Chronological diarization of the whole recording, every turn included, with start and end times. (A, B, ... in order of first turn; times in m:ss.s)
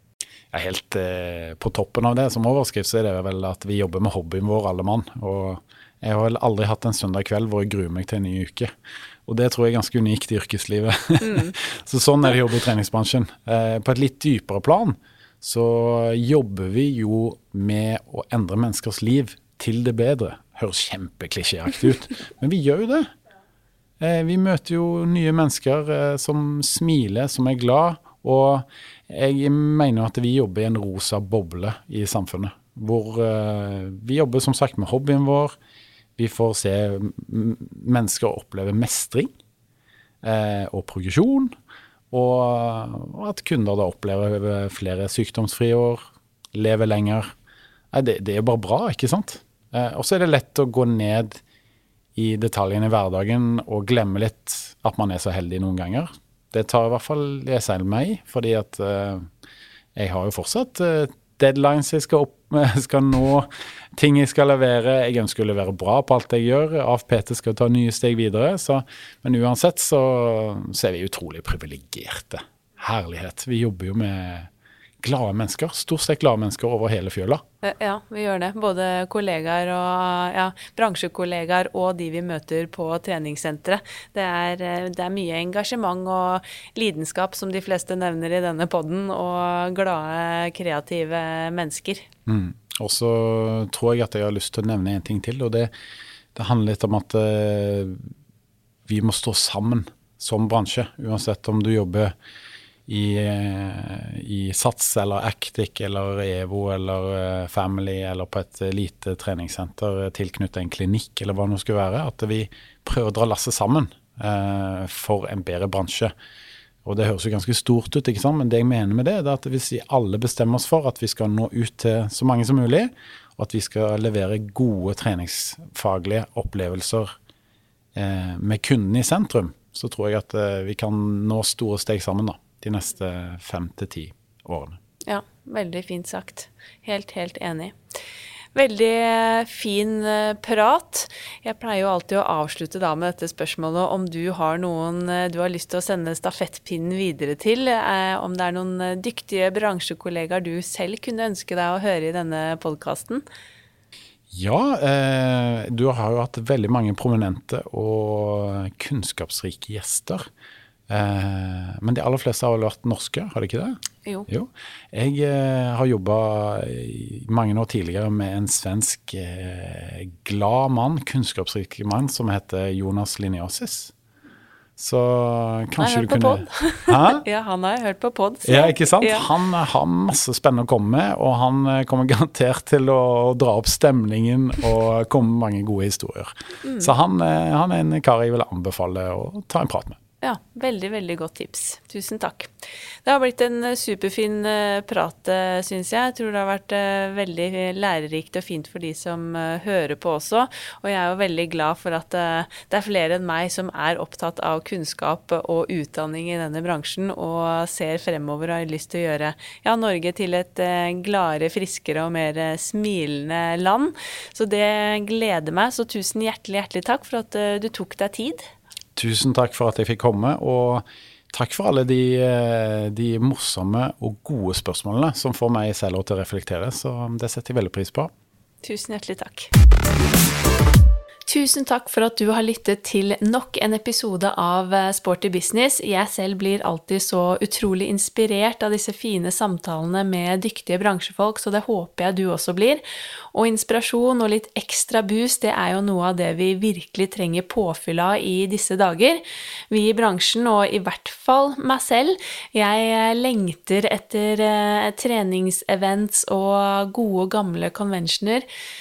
0:00.5-0:08.7 A
0:09.3-0:23.1 A
0:11.2-0:11.5 B
0:24.0-0:35.6 A
0:36.2-0:39.3 A
0:40.2-0:41.5 A
0:42.1-0:46.0 A
0:46.5-0:47.3 A
0:47.9-0:51.4 A
0:52.2-0:59.3 A
0:59.9-1:14.5 A
1:15.0-1:17.4 A
1:17.6-1:32.0 B
1:32.3-1:35.7 A
1:36.3-1:38.0 A
1:38.8-1:42.1 A
1:42.9-1:56.1 A
1:56.8-2:07.1 A
2:07.9-2:14.8 A
2:15.1-2:17.8 B
2:18.5-2:33.2 B
2:34.3-2:40.2 A
2:40.9-2:53.9 A
2:54.8-2:57.2 A
2:55.8-2:59.3 B
2:58.4-3:10.0 A
3:06.6-3:06.9 B
3:10.2-3:12.5 B
3:13.0-3:38.4 B
3:39.0-3:48.1 A
3:48.6-3:49.5 B
3:51.3-4:02.8 B
4:03.3-4:18.4 B